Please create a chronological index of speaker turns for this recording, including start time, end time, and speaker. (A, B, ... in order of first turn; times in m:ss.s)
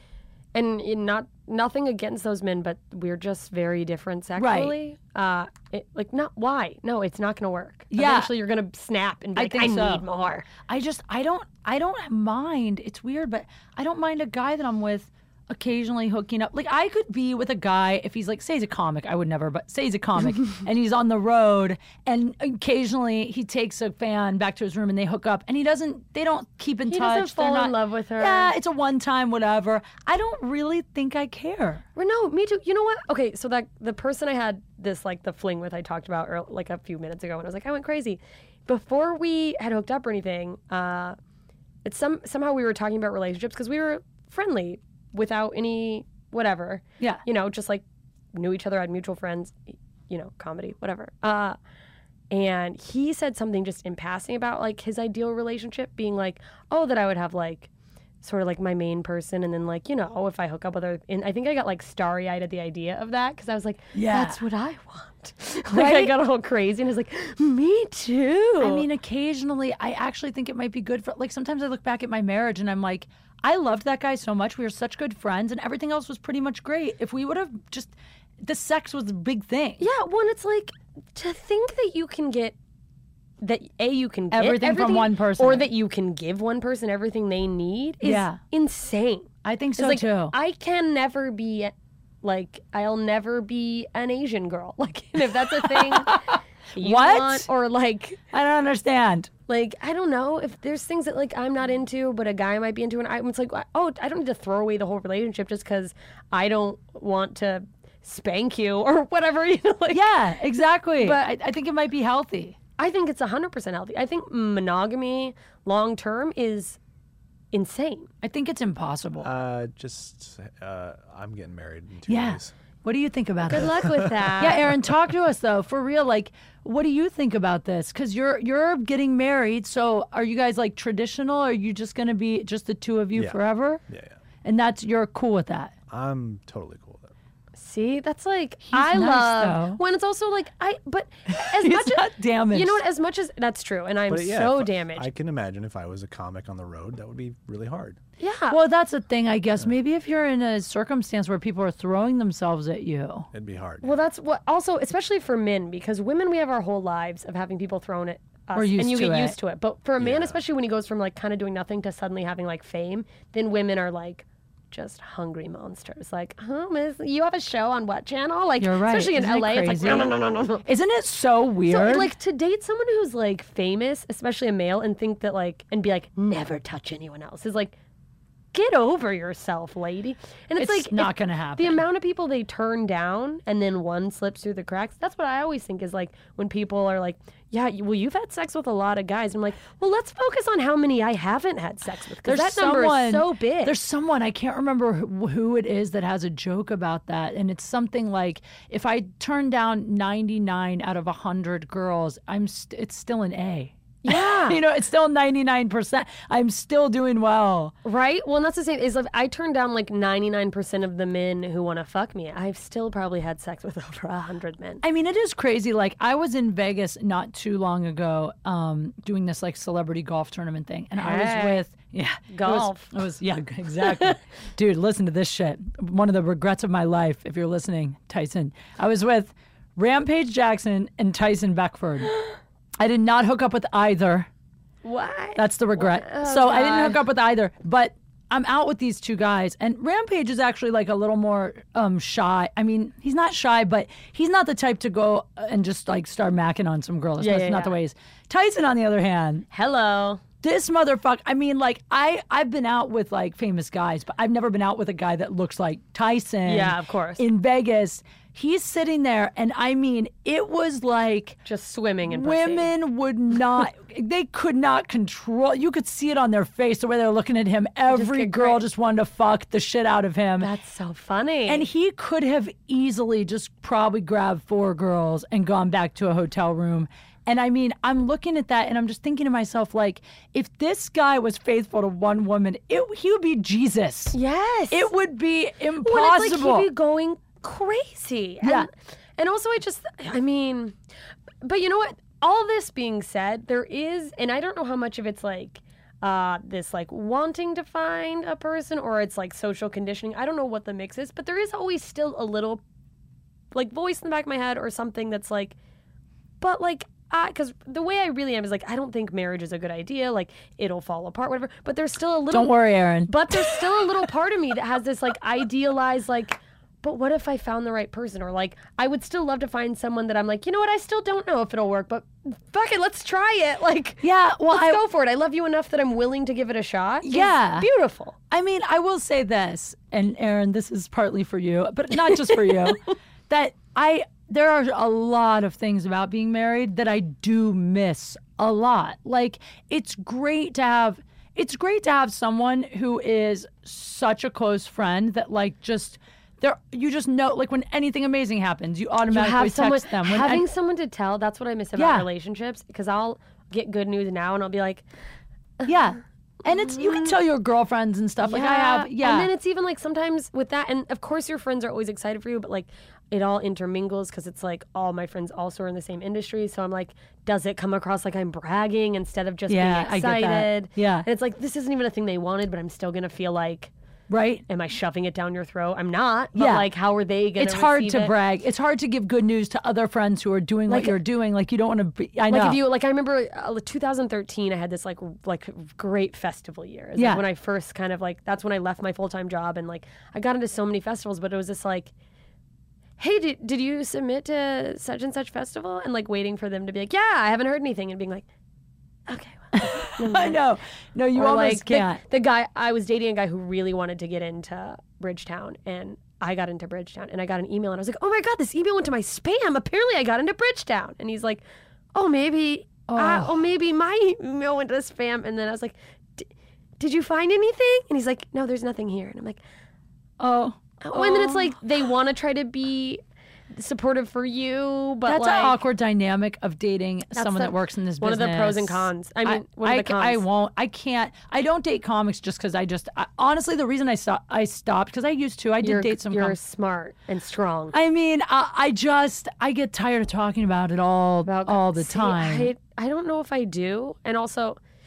0:00.5-0:10.5 A
0:04.4-0:04.7 B
0:07.9-0:08.3 B
0:09.4-0:10.0 B
0:10.6-0:31.8 B
0:26.9-0:28.5 A
0:32.0-0:41.2 A
0:41.8-0:51.6 A
0:52.3-0:57.7 A
0:58.2-1:08.8 A
1:03.9-1:04.4 B
1:05.7-1:06.1 B
1:08.6-1:19.8 B
1:19.8-1:22.6 A
1:23.4-1:36.2 A
1:24.3-1:25.7 B
1:28.0-1:28.4 B
1:29.4-1:30.3 B
1:35.6-1:37.5 B
1:36.7-1:38.2 A
1:38.3-1:39.3 B
1:39.5-1:50.1 A
1:49.9-1:52.6 B
1:51.0-1:51.3 A
1:52.8-1:56.8 A
1:57.5-1:58.1 A
1:58.2-1:59.3 B
1:59.2-2:02.5 C
2:02.1-2:03.8 B
2:03.5-2:04.7 A
2:03.5-2:04.5 C
2:04.4-2:13.8 B
2:13.9-2:14.2 C
2:14.4-2:15.7 B
2:15.9-2:17.1 C
2:17.6-2:25.1 A
2:18.7-2:19.8 B
2:21.3-2:22.8 B
2:24.1-2:28.0 C
2:28.2-2:28.6 A
2:28.5-2:33.3 B
2:33.3-2:33.9 C
2:33.8-2:50.6 A
2:38.5-2:39.4 B
2:40.0-2:40.4 C
2:48.6-2:52.1 B
2:51.7-2:57.8 A
2:58.5-3:13.8 A
3:00.6-3:01.8 B
3:12.2-3:27.7 B
3:24.0-3:24.6 A
3:27.8-3:34.8 A
3:34.8-3:52.1 B
3:41.0-3:41.6 A
3:42.3-3:43.0 A
3:43.8-3:44.2 A
3:52.8-3:54.3 B
3:54.8-3:57.0 A
3:55.4-4:09.4 B
4:07.2-4:07.8 A
4:09.5-4:10.2 A
4:10.4-4:21.4 B
4:16.4-4:17.2 A
4:21.4-4:22.7 A
4:22.1-4:30.5 B
4:27.9-4:28.6 A
4:30.4-4:31.7 A
4:31.5-4:44.2 B
4:44.1-4:44.9 A
4:44.7-4:46.7 B
4:45.8-4:50.8 A
4:48.4-4:48.7 B
4:51.4-5:02.6 A
5:03.5-5:05.6 A
5:06.4-5:12.6 A
5:12.3-5:13.6 B
5:13.1-5:28.2 A
5:24.0-5:24.8 B
5:27.0-5:27.7 B
5:28.3-5:50.4 B
5:49.1-5:54.8 A
5:51.8-5:52.0 B
5:55.6-5:59.3 B
5:56.5-5:57.1 A
5:58.2-6:13.7 A
6:09.5-6:11.1 B
6:14.1-6:14.4 B
6:14.5-6:18.1 A
6:16.3-6:16.7 B
6:17.4-6:22.6 B
6:20.7-6:21.0 A
6:22.3-6:31.9 A
6:27.0-6:27.2 B
6:33.0-6:38.3 A
6:39.1-6:40.4 A
6:39.5-6:42.0 B
6:41.1-6:51.4 A
6:51.9-6:59.4 A
6:52.9-6:53.4 B
7:00.2-7:01.5 B
7:00.8-7:03.0 A
7:03.5-7:05.6 A
7:05.0-7:16.4 B
7:07.2-7:10.2 A
7:15.6-7:17.7 A
7:17.7-7:22.5 B
7:21.2-7:24.6 A